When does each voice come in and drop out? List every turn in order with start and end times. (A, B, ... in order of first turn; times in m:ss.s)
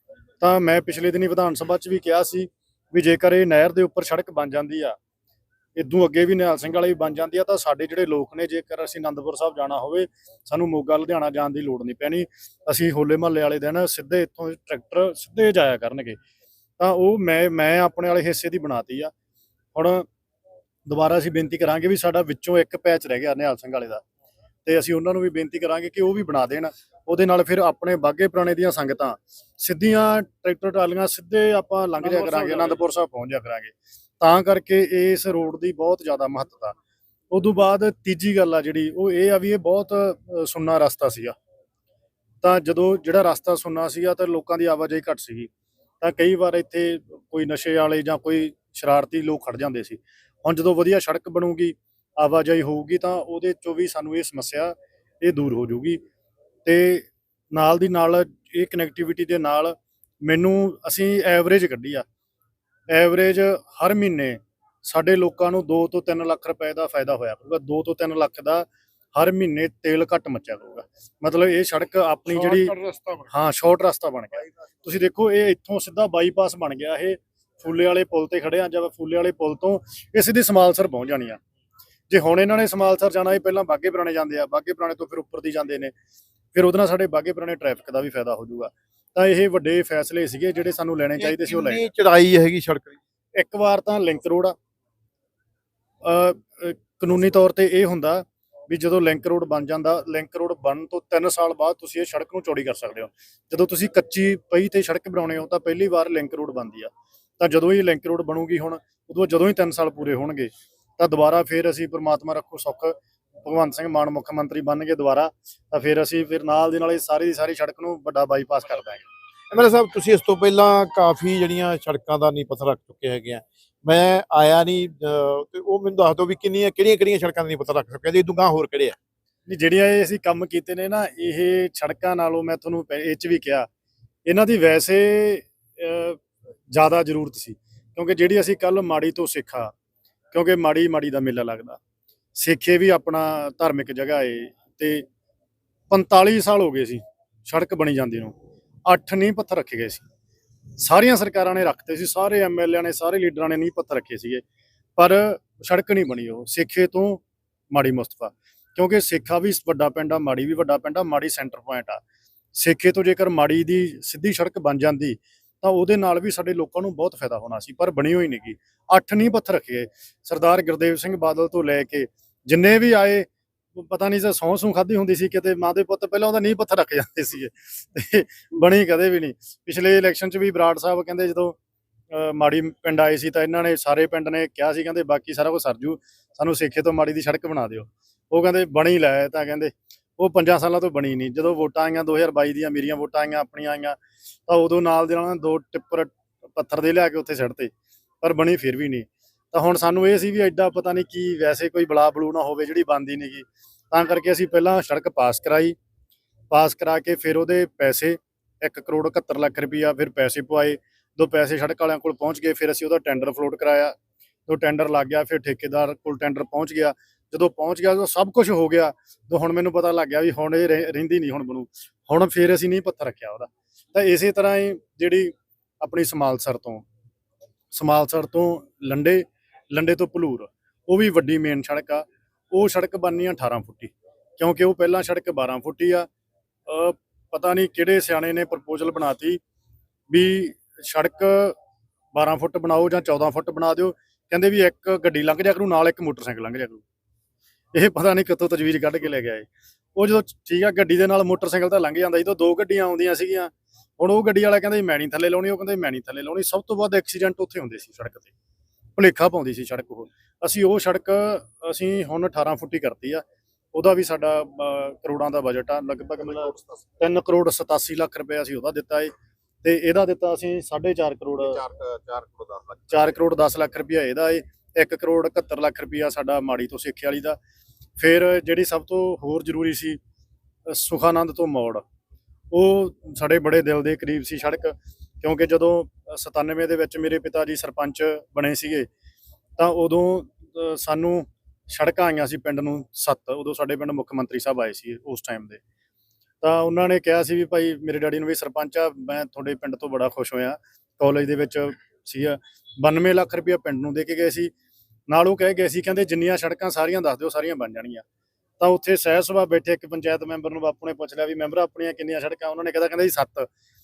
0:00.4-0:05.0 A
0:05.8-0:16.2 A
0:16.8-0:19.1 A
0:19.8-0:20.1 A
0:20.9-0:24.0 A
0:24.6-0:36.8 A
0:32.0-0:32.8 B
0:37.3-0:41.4 A
0:42.4-0:45.5 A
0:46.0-0:56.0 A
0:56.6-1:02.0 A
1:02.9-1:12.7 A
1:12.3-1:13.3 B
1:13.3-1:21.4 A
1:22.1-1:25.9 A
1:26.5-1:31.8 A
1:31.2-1:33.0 B
1:33.4-1:34.6 A
1:36.0-1:59.1 A
1:59.5-2:09.0 B
2:09.5-2:13.7 A
2:14.3-2:19.7 A
2:20.3-2:21.8 A
2:22.4-2:25.1 A
2:25.9-2:28.4 A
2:28.9-2:30.0 A
2:30.8-2:34.4 A
2:35.0-2:42.0 A
2:42.5-3:01.6 A
3:02.1-3:25.8 A
3:26.5-3:33.9 A
3:34.5-3:46.8 A
3:47.7-3:56.1 A
3:56.7-3:59.4 A
4:00.1-4:01.6 A
4:02.1-4:06.8 A
4:07.7-4:18.3 A
4:19.0-4:29.1 A
4:26.3-4:26.6 B
4:29.6-4:31.6 A
4:31.5-4:32.9 B
4:32.9-4:37.4 A
4:38.0-4:40.0 A
4:40.7-4:41.8 A
4:42.5-4:48.9 A
4:49.6-4:55.6 A
4:56.4-5:04.5 A
5:05.1-5:08.0 A
5:08.6-5:13.5 A